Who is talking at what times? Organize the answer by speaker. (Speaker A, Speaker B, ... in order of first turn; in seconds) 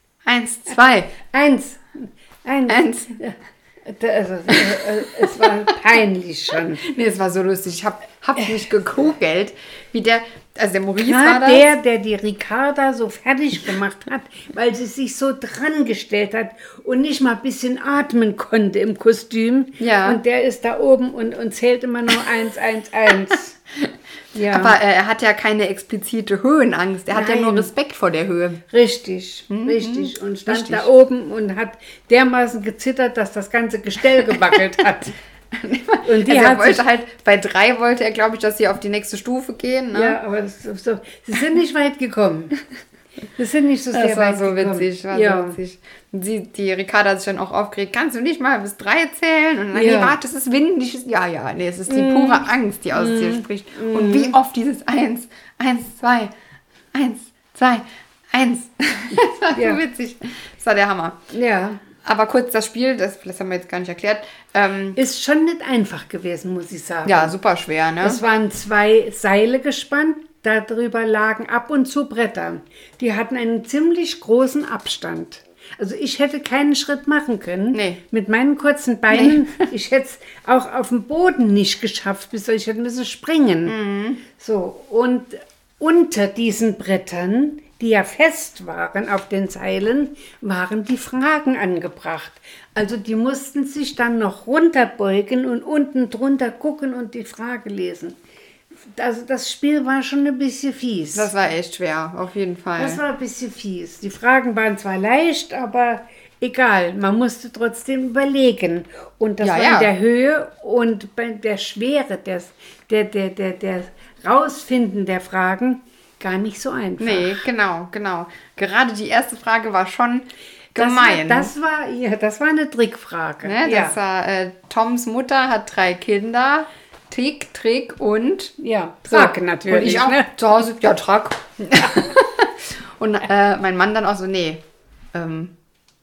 Speaker A: 0.2-1.2, 2.7-3.1, 6.8-11.7, 19.8-20.2, 24.5-28.6, 29.5-30.9, 35.5-40.2, 43.9-56.3, 56.9-61.2, 62.0-65.0, 67.0-68.2, 77.7-78.0, 79.1-79.5, 83.7-84.2, 101.1-103.0, 109.4-109.9, 117.0-121.5, 123.4-128.5, 129.1-134.6, 135.1-135.5
Speaker B: 1.3-6.8, 11.0-23.6, 24.3-24.8, 27.1-27.7, 28.7-35.1, 36.0-36.8, 39.9-42.6, 43.4-45.6, 49.7-50.2, 51.9-54.4, 59.5-59.8, 61.3-61.8, 65.0-67.4, 68.0-83.8, 84.3-98.2, 98.9-101.3, 102.8-117.5, 120.8-124.0, 128.6-130.3, 131.8-132.0